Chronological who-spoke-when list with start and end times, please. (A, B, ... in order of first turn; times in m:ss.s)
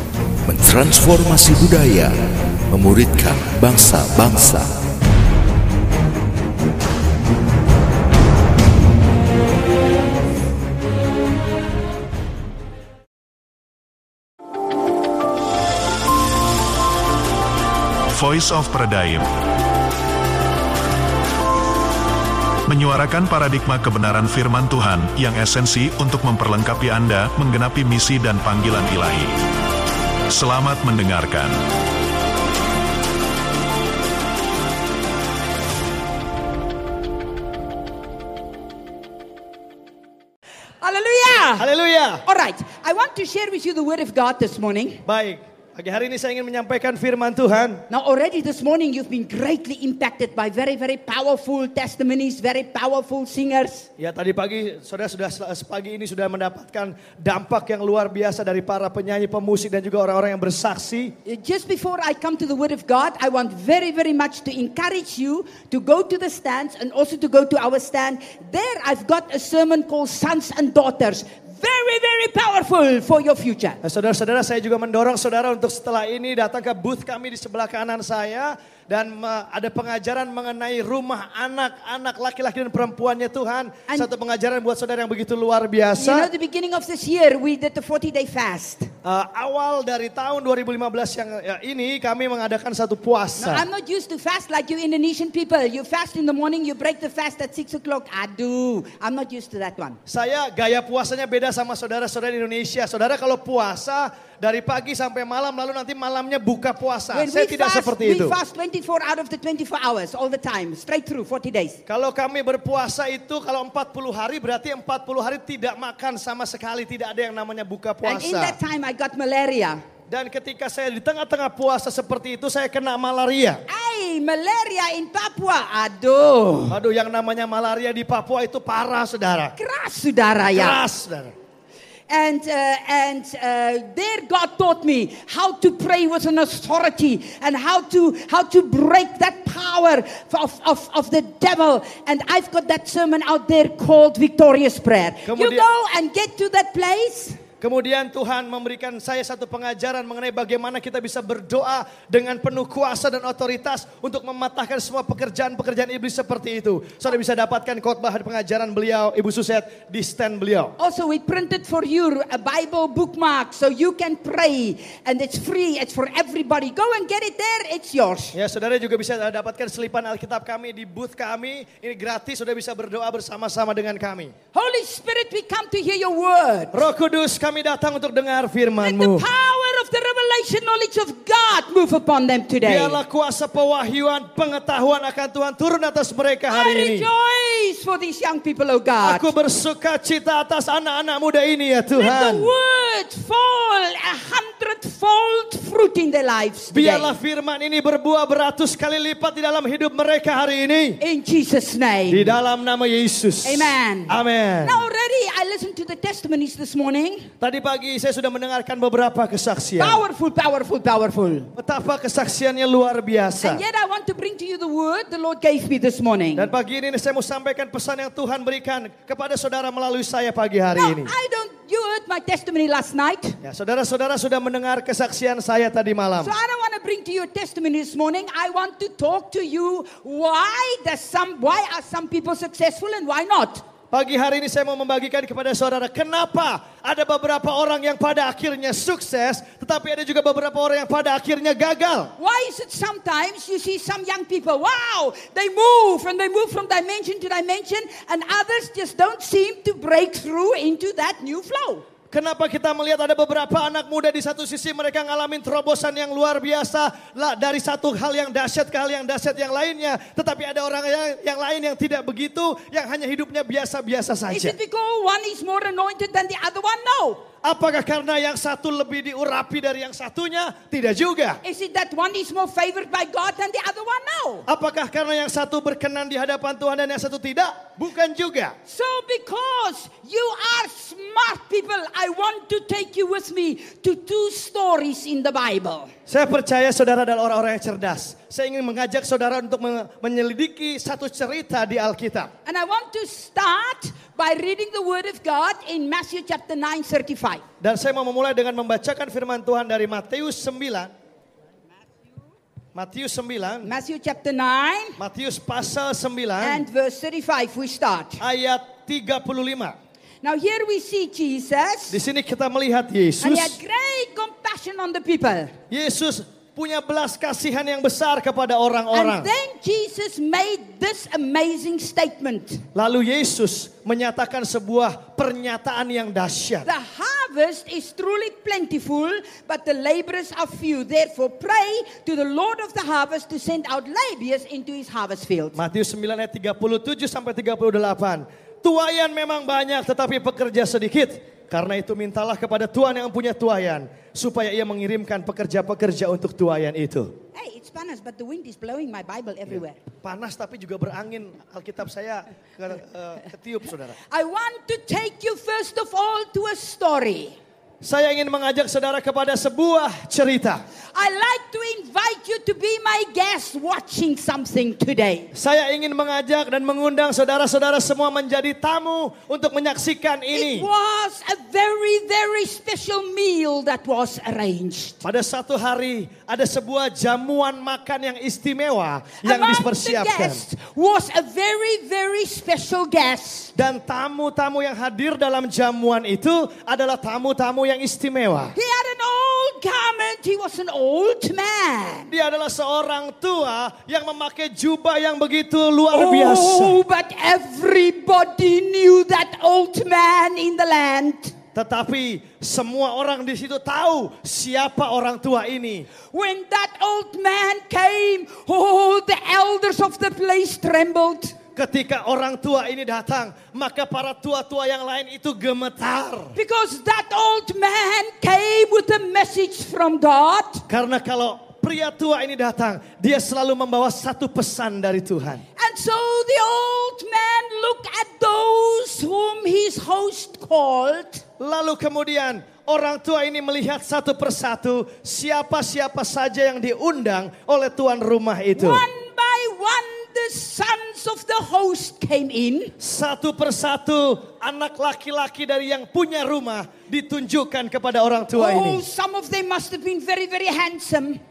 0:00.4-0:02.2 A
0:02.7-0:04.7 A
0:18.1-0:19.3 B
0:22.7-0:29.5 B
0:30.3-0:31.6 B
0:40.8-0:41.7 C
0:41.6-0:42.2 D
0:42.2-0:45.0 C
0:45.0-0:47.8 D
0:47.9-0:53.9 C
0:54.0-1:01.1 D
1:01.2-1:13.8 C
1:13.8-1:26.3 D
1:25.9-1:28.9 C
1:29.0-1:33.6 D
1:33.4-1:40.0 C
1:40.0-1:48.4 D
1:47.1-1:51.8 C
1:51.9-1:58.6 D
1:58.0-1:59.8 C
2:00.1-2:03.6 D
2:03.7-2:06.8 C
2:06.7-2:09.5 D
2:09.6-2:10.8 C
2:10.5-2:11.3 D
2:12.1-2:27.4 C
2:25.2-2:25.6 D
2:27.6-2:40.7 D
2:40.8-2:48.3 C
2:48.3-2:54.3 D
2:54.5-2:56.8 C
2:56.7-2:59.2 D
2:58.8-3:03.0 C
3:02.6-3:07.1 D
3:06.5-3:09.3 C
3:09.0-3:12.5 D
3:11.9-3:17.1 C
3:16.7-3:21.0 D
3:21.0-3:22.4 C
3:22.1-3:24.8 D
3:23.4-3:27.3 C
3:27.4-3:30.0 D
3:29.8-3:31.5 C
3:31.6-3:33.6 D
3:33.4-3:36.5 C
3:36.3-3:41.1 D
3:40.8-3:43.4 C
3:43.4-3:46.3 D
3:46.2-3:53.6 C
3:53.9-4:02.1 D
4:02.2-4:11.8 C
4:12.1-4:24.6 D
4:24.3-4:27.2 C
4:27.4-4:31.4 D
4:31.4-4:34.4 C
4:34.5-4:38.6 D
4:38.7-4:45.9 C
4:46.1-4:52.3 D
4:52.4-4:57.4 C
4:57.6-5:00.9 D
5:02.7-5:03.7 D
5:03.6-5:05.0 C
5:05.0-5:06.6 D
5:06.4-5:08.2 C
5:08.2-5:09.8 D
5:10.2-5:12.0 C
5:11.9-5:13.6 D
5:13.2-5:15.5 C
5:15.7-5:19.3 D
5:18.9-5:22.6 C
5:22.7-5:26.7 D
5:26.6-5:35.6 C
5:35.5-5:47.1 D
5:47.3-5:49.8 C
5:49.5-5:54.0 D
5:54.1-5:57.4 C
5:57.8-6:00.6 D
6:00.9-6:05.3 C
6:05.3-6:10.7 D
6:10.3-6:15.0 C
6:15.0-6:20.4 D
6:19.2-6:23.5 C
6:23.6-6:28.5 D
6:28.5-6:32.1 C
6:32.1-6:36.8 D
6:35.9-6:41.3 C
6:41.5-6:45.9 D
6:46.1-6:51.3 C
6:51.6-6:56.3 D
6:56.3-7:00.6 C
7:00.7-7:05.4 D
7:05.6-7:11.2 C
7:11.4-7:18.8 D
7:18.5-7:22.7 C
7:22.8-7:28.8 D
7:28.3-7:31.2 C